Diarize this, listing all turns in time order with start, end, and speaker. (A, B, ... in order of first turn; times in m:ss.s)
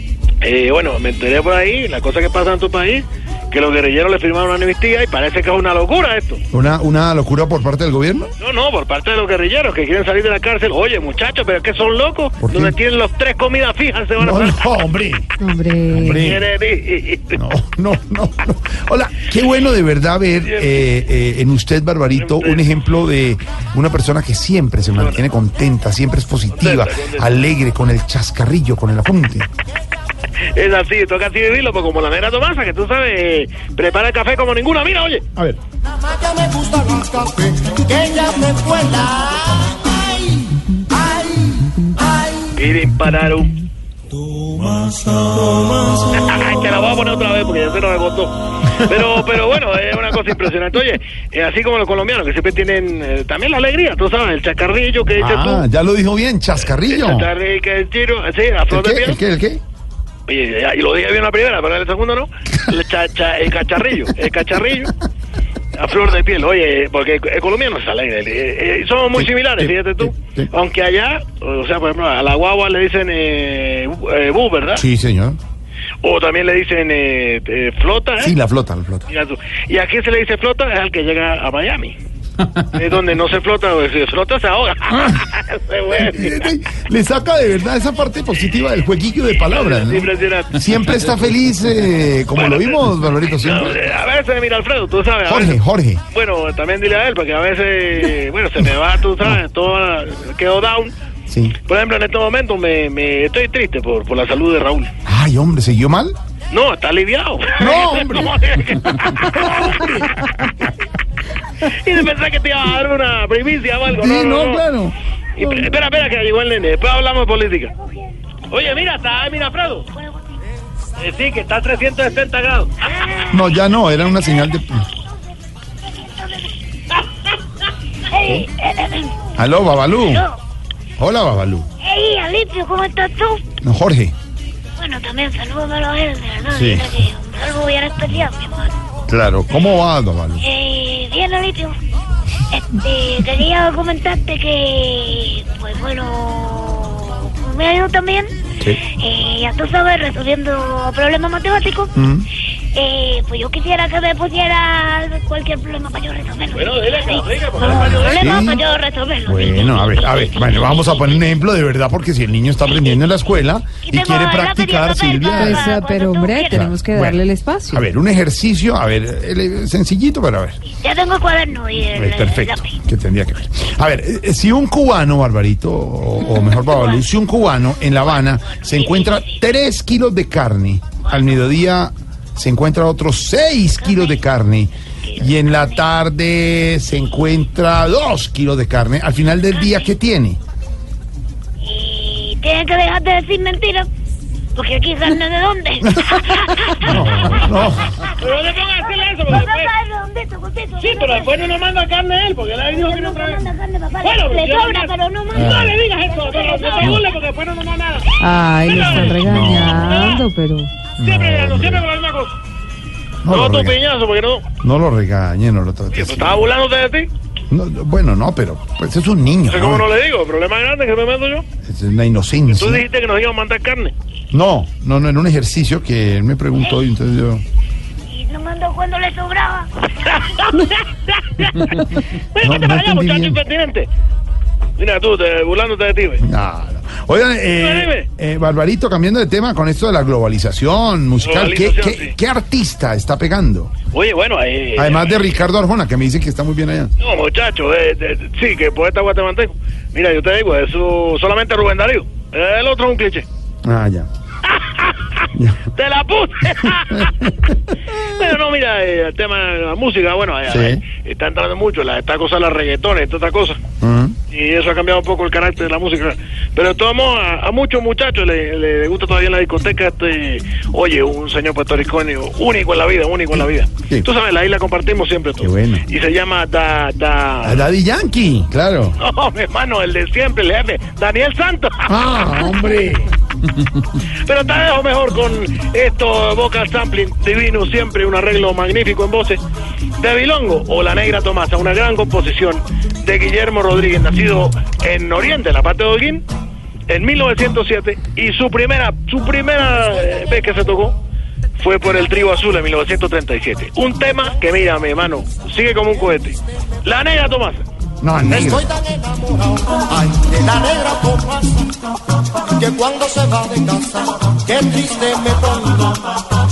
0:00.4-0:06.4 A
0:06.5-0:08.3 B
0:08.4-0:14.7 A
0:12.4-0:12.8 B
0:14.2-0:15.3 B
0:15.4-0:16.3 C
0:15.9-0:16.4 B
0:16.1-0:17.4 A
0:17.4-0:29.5 B
0:20.4-0:20.9 A
0:22.2-0:22.7 A
0:26.6-0:27.3 A
0:30.6-0:35.2 A
0:36.0-0:41.3 D
0:42.6-0:43.6 A
0:45.8-0:55.6 A
0:55.2-0:57.3 B
0:56.7-0:59.2 A
0:58.7-0:59.6 B
1:00.3-1:04.9 A
1:05.8-1:14.8 A
1:09.1-1:10.5 B
1:14.7-1:15.4 B
1:16.0-1:18.4 A
1:18.2-1:19.1 B
1:19.1-1:22.0 A
1:22.6-1:26.5 A
1:25.9-1:33.8 B
1:29.4-1:30.9 A
1:32.3-1:35.6 A
1:35.3-1:36.0 B
1:36.1-1:41.0 A
1:41.3-1:41.6 B
1:41.7-1:44.9 A
1:45.1-1:46.2 B
1:46.5-1:50.0 A
1:47.6-1:50.5 B
1:51.6-1:54.6 A
1:53.9-1:55.7 B
1:55.4-1:57.7 A
1:58.5-1:59.9 A
1:59.9-2:00.4 E
2:01.0-2:02.8 A
2:02.9-2:03.6 E
2:03.3-2:04.9 B
2:04.1-2:04.5 E
2:05.8-2:06.5 E
2:08.0-2:09.3 E
2:09.4-2:10.2 B
2:10.0-2:10.4 E
2:11.0-2:11.7 B
2:11.8-2:13.4 E
2:13.6-2:14.1 B
2:14.8-2:18.8 E
2:16.5-2:17.1 B
2:19.1-2:20.5 B
2:20.4-2:21.8 E
2:22.5-2:31.9 E
2:32.0-2:32.3 B
2:32.7-2:41.2 E
2:36.5-2:38.5 A
2:37.6-2:38.6 B
2:39.3-2:45.8 B
2:42.7-2:43.0 E
2:43.8-2:46.7 E
2:45.3-2:47.8 C
2:46.5-2:50.6 B
2:50.7-2:52.8 E
2:51.9-3:10.4 B
2:56.4-2:57.0 E
2:57.9-2:59.4 E
3:03.8-3:04.2 E
3:05.1-3:05.9 E
3:11.6-3:13.9 E
3:14.6-3:17.5 E
3:15.8-3:18.0 B
3:18.1-3:19.7 A
3:18.9-3:21.3 E
3:20.8-3:23.5 A
3:22.7-3:27.1 E
3:24.0-3:29.2 A
3:28.2-3:30.7 C
3:28.7-3:30.1 B
3:29.7-3:30.2 E
3:29.9-3:30.2 A
3:31.0-3:31.8 B
3:31.0-3:32.4 A
3:33.2-3:33.8 B
3:33.3-3:34.4 A
3:34.6-3:36.5 B
3:35.9-3:37.1 A
3:37.5-3:39.9 B
3:39.4-3:41.4 A
3:41.6-3:42.8 B
3:42.5-3:43.9 A
3:44.3-3:47.4 B
3:48.1-3:49.8 E
3:50.0-3:53.9 A
3:52.4-3:53.4 B
3:54.8-3:56.2 A
3:56.2-4:03.7 B
3:57.6-3:58.1 A
4:01.2-4:02.2 A
4:03.9-4:05.2 A
4:04.8-4:06.9 B
4:07.0-4:13.3 A
4:13.6-4:14.1 B
4:14.5-4:17.2 A
4:15.3-4:15.6 B
4:16.9-4:17.6 B
4:18.0-4:23.6 A
4:20.5-4:20.8 B
4:23.8-4:24.2 B
4:24.3-4:37.7 A
4:35.4-4:35.9 B
4:37.4-4:39.0 B
4:39.0-4:41.9 A
4:41.9-4:43.1 B
4:44.3-4:49.4 A
4:50.0-4:56.2 A
4:56.9-5:01.0 A
5:01.6-5:07.6 A
5:08.0-5:08.7 B
5:08.3-5:08.6 A
5:08.4-5:11.7 D
5:12.5-5:16.1 D